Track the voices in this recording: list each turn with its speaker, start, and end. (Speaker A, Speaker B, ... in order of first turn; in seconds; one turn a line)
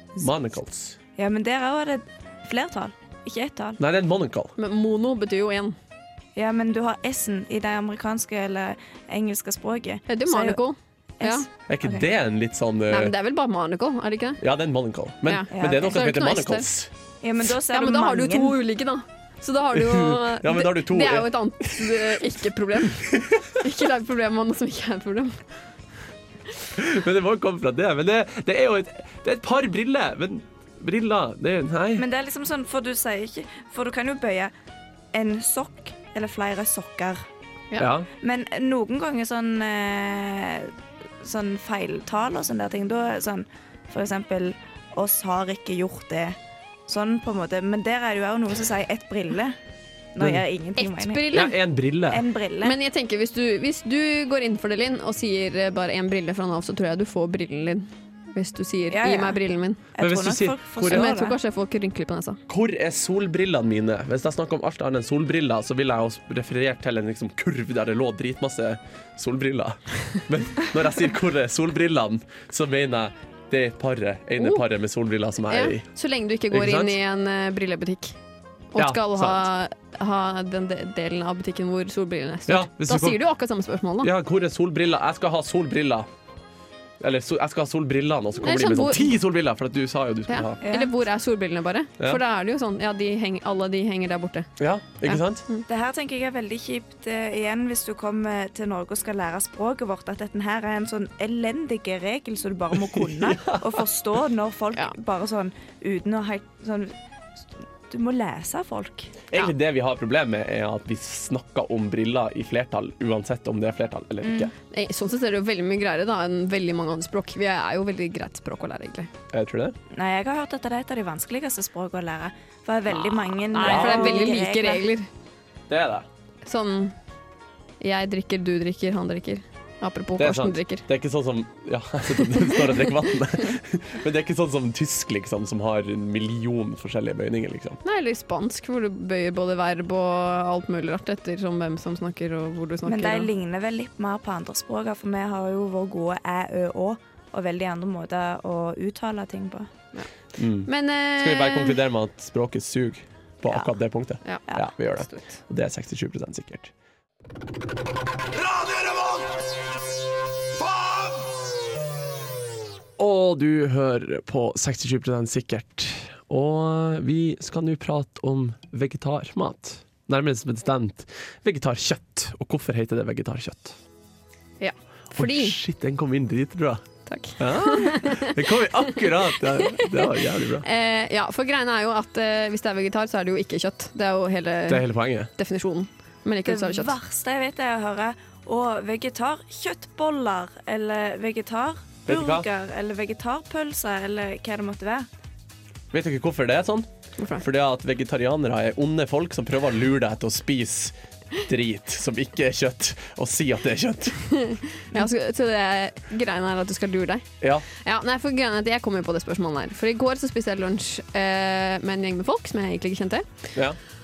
Speaker A: 0.2-1.0
Speaker B: 1.2-3.8
Speaker A: 3.8-4.5
Speaker C: 4.6-5.8
Speaker B: 6.3-10.6
Speaker C: 10.1-11.5
Speaker B: 11.2-12.1
Speaker A: 11.7-13.1
Speaker C: 12.9-14.4
Speaker A: 14.4-16.9
Speaker C: 15.2-16.7
Speaker B: 15.5-15.9
Speaker B: 17.2-18.6
Speaker C: 17.7-25.4
Speaker A: 19.7-23.5
Speaker A: 26.7-32.0
Speaker B: 31.9-34.5
Speaker B: 35.1-37.2
Speaker A: 37.8-38.1
Speaker B: 38.2-49.6
Speaker B: 50.1-51.3
Speaker C: 50.8-51.5
Speaker A: 51.3-52.2
Speaker B: 52.1-52.7
Speaker C: 52.6-59.8
Speaker B: 58.9-59.4
Speaker B: 59.9-61.4
Speaker A: 60.0-61.1
Speaker C: 60.9-62.4
Speaker A: 62.5-75.8
Speaker C: 74.4-74.6
Speaker C: 75.5-78.2
Speaker A: 76.5-77.0
Speaker C: 78.7-84.1
Speaker A: 78.8-79.5
Speaker A: 82.5-83.2
Speaker A: 84.0-86.1
Speaker A: 87.0-90.6
Speaker C: 88.4-89.2
Speaker C: 90.3-94.5
Speaker B: 90.6-90.9
Speaker A: 94.6-95.4
Speaker C: 95.0-95.6
Speaker B: 95.7-109.2
Speaker A: 102.7-103.8
Speaker A: 109.3-114.5
Speaker B: 114.2-114.5
Speaker C: 114.7-119.1
Speaker A: 119.3-119.8
Speaker B: 119.9-124.9
Speaker A: 123.5-124.3
Speaker C: 123.5-125.1
Speaker A: 125.7-126.1
Speaker C: 126.4-127.0
Speaker C: 127.8-130.8
Speaker A: 130.2-137.8
Speaker C: 132.4-132.7
Speaker C: 137.8-143.3
Speaker B: 142.8-149.7
Speaker A: 150.3-156.7
Speaker C: 150.7-151.8
Speaker C: 154.2-155.3
Speaker A: 163.0-173.8
Speaker C: 174.6-175.6
Speaker A: 175.1-176.8
Speaker C: 177.1-178.4
Speaker A: 177.4-180.6
Speaker C: 179.6-186.9
Speaker A: 184.7-185.3
Speaker B: 186.4-195.1
Speaker A: 192.1-192.5
Speaker A: 195.9-204.2
Speaker C: 197.2-197.4
Speaker C: 204.2-213.5
Speaker A: 207.4-207.7